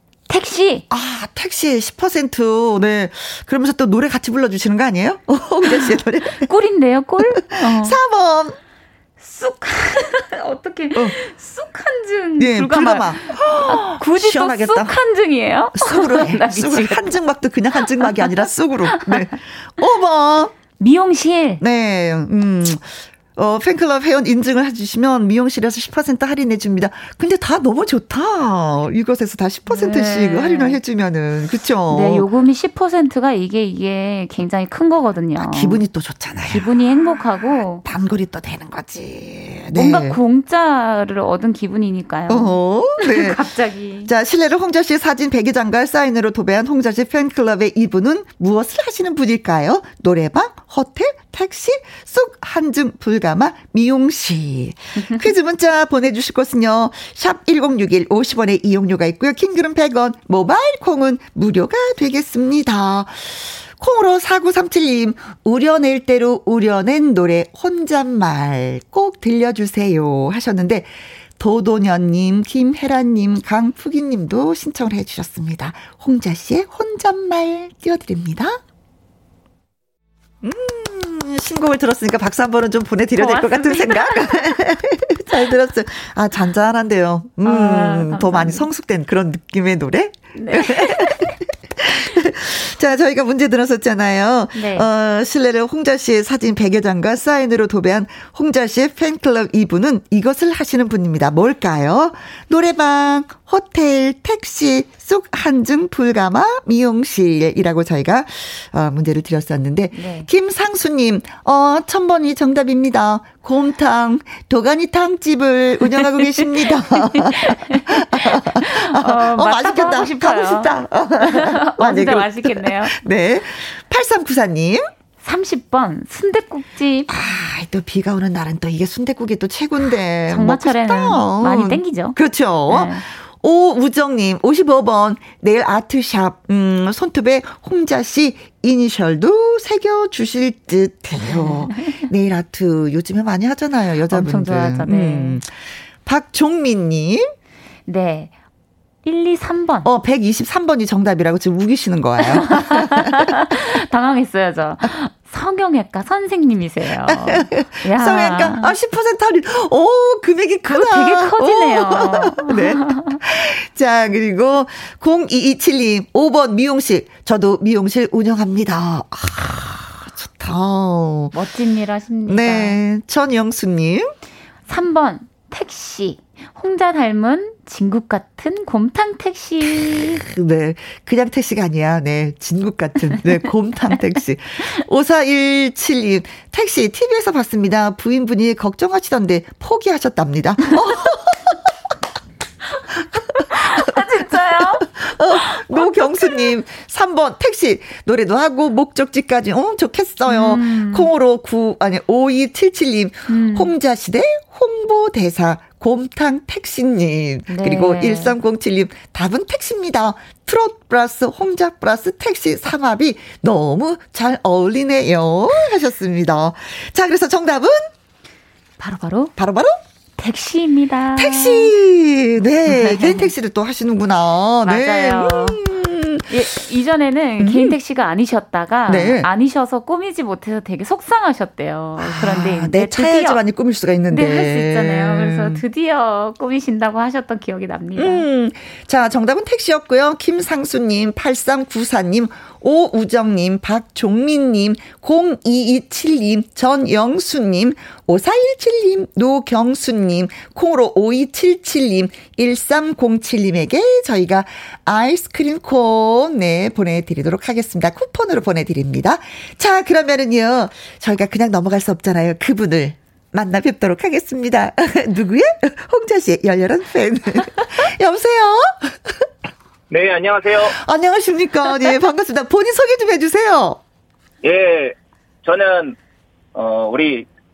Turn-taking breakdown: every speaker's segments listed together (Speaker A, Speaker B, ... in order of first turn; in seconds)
Speaker A: 0.3-0.8, 5.7-8.0, 9.2-17.1, 18.0-18.3, 18.9-19.2, 20.8-21.6, 29.7-30.8, 31.9-35.8, 36.5-37.8, 39.7-44.1, 83.2-84.6, 87.4-88.7, 90.3-91.3, 94.5-94.9, 109.9-110.3, 115.9-123.0, 125.2-127.1, 130.3-133.0, 141.3-142.0, 144.1-145.4, 147.9-148.3, 149.0-149.9, 152.5-158.7, 160.7-163.2, 171.3-172.8, 174.7-180.2, 193.3-196.5, 200.3-201.1, 203.3-203.7, 207.5-208.3, 218.8-219.3, 220.2-221.7, 222.7-223.3, 224.6-225.6, 226.3-233.4, 234.1-238.2
Speaker B: 0.9-6.5, 7.2-8.6, 12.4-15.0, 15.8-20.5, 21.6-32.2, 35.4-40.2, 42.3-43.4, 44.0-78.6, 80.4-124.9, 127.1-145.5, 146.0-147.3, 149.8-153.3, 157.0-171.4, 172.3-174.1, 180.0-191.7, 193.3-217.9, 219.3-219.8, 221.2-226.3, 227.4-227.7, 228.9-229.3, 232.0-235.6, 237.9-269.2, 270.6-273.8
Speaker C: 269.9-270.8, 274.4-276.0, 276.5-277.3